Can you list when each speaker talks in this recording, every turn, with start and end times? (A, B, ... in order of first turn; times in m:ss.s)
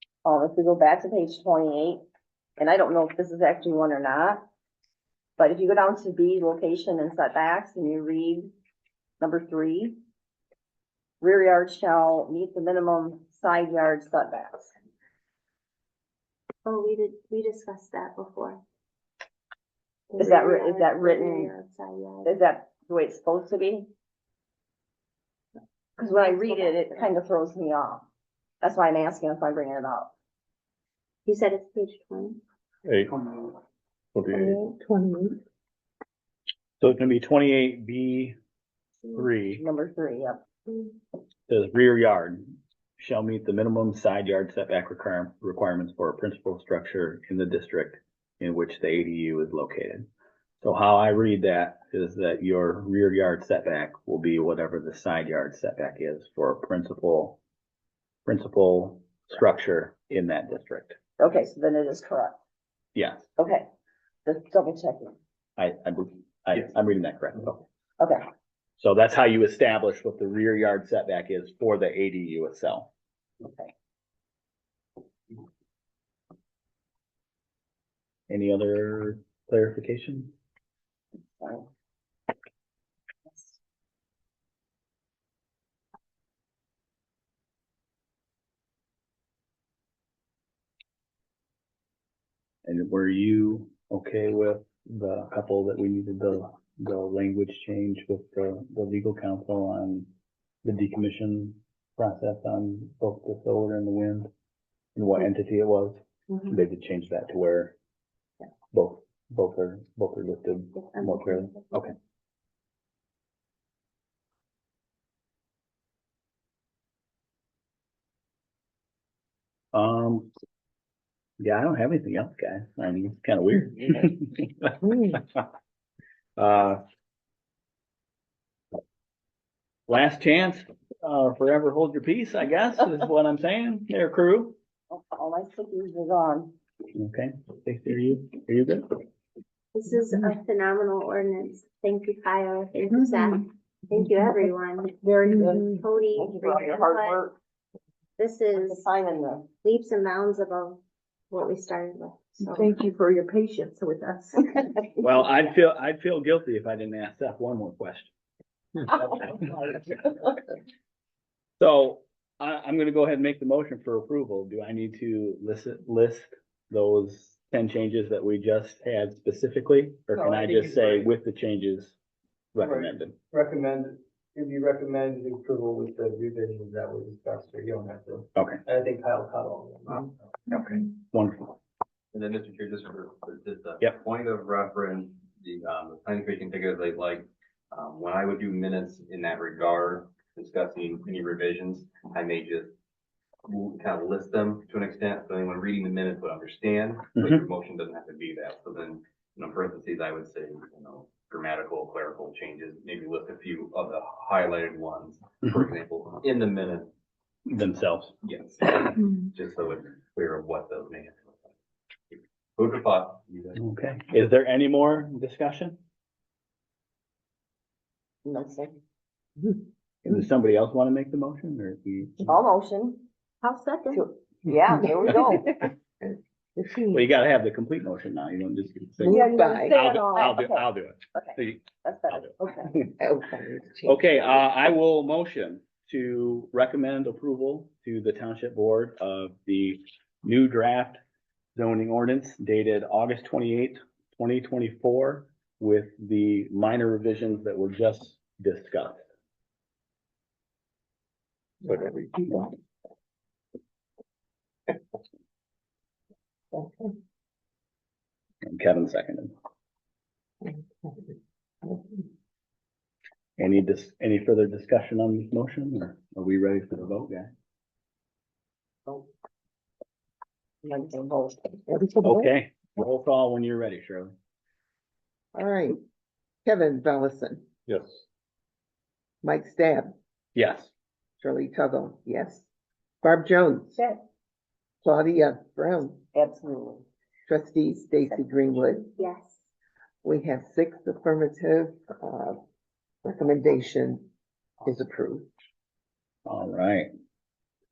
0:00.2-0:02.0 A
0:02.6-0:04.4 A
0:05.4-0:08.5 A
0:09.2-0:10.0 A
0:11.2-0:14.7 A
0:16.6-0:18.6 B
0:20.1-0:22.4 B
0:20.2-0:21.5 A
0:22.2-0:23.9 A
0:26.0-0:28.1 A
0:26.0-0:27.1 B
0:28.6-0:30.1 A
0:31.2-0:32.4 B
0:34.3-0:35.4 C
0:36.8-0:38.4 D
0:39.2-0:39.6 D
0:39.6-0:40.4 A
0:41.5-0:42.4 D
0:43.0-0:50.1 D
0:50.6-0:57.4 D
0:58.3-1:01.0 D
1:01.2-1:02.4 A
1:03.0-1:03.3 D
1:03.4-1:03.7 A
1:04.2-1:05.2 A
1:05.6-1:07.6 D
1:08.0-1:08.2 A
1:08.8-1:12.9 D
1:13.4-1:13.7 A
1:18.3-1:20.3 D
1:21.2-1:21.7 A
1:23.3-1:23.6 A
1:32.6-1:40.1 D
1:40.6-1:44.3 D
1:45.0-1:47.8 D
1:48.7-1:51.9 D
1:50.8-1:51.8 B
1:59.7-2:00.3 D
2:01.4-2:05.4 D
2:06.4-2:06.8 D
2:09.9-2:14.6 D
2:14.9-2:16.5 A
2:17.0-2:18.9 D
2:19.7-2:27.2 B
2:25.0-2:25.8 E
2:26.2-2:27.4 A
2:28.2-2:28.9 B
2:28.6-2:29.5 A
2:29.6-2:30.8 B
2:31.3-2:32.7 B
2:32.5-2:34.6 E
2:35.0-2:38.1 D
2:39.0-2:39.9 D
2:41.6-2:52.0 D
2:50.2-2:51.0 F
2:52.5-2:53.1 D
2:52.6-3:00.1 F
2:58.4-2:58.6 D
3:00.5-3:01.5 D
3:02.1-3:12.7 G
3:13.5-3:26.9 G
3:17.2-3:17.4 D
3:27.5-3:28.1 D
3:28.2-3:31.5 G
3:32.1-3:33.6 G
3:33.6-3:35.8 D
3:38.2-3:38.8 A
3:40.0-3:42.4 D
3:42.3-3:43.0 A
3:43.4-3:44.0 B
3:43.9-3:45.7 A
3:46.6-3:46.9 C
3:46.9-3:52.8 D
3:49.0-3:49.8 C
3:49.1-3:52.8 A
3:53.0-3:54.2 C
3:53.9-4:01.0 D
4:01.6-4:09.0 D
4:11.6-4:12.6 C
4:16.5-4:16.9 C
4:18.4-4:19.3 D
4:20.4-4:21.1 C
4:21.6-4:22.0 C
4:23.4-4:27.3 D
4:30.6-4:31.6 A
4:31.7-4:32.3 C
4:32.0-4:34.1 D
4:35.4-4:35.8 C
4:36.4-4:37.4 C
4:39.2-4:39.9 C
4:40.4-4:40.7 D
4:41.2-4:42.5 C
4:43.0-4:43.8 C
4:44.8-4:46.0 C
4:46.1-4:46.8 A
4:47.3-4:48.9 C
4:49.0-4:49.4 B
4:50.0-4:52.4 C
4:53.0-4:54.0 C
4:54.6-4:55.3 C
4:56.3-4:56.9 D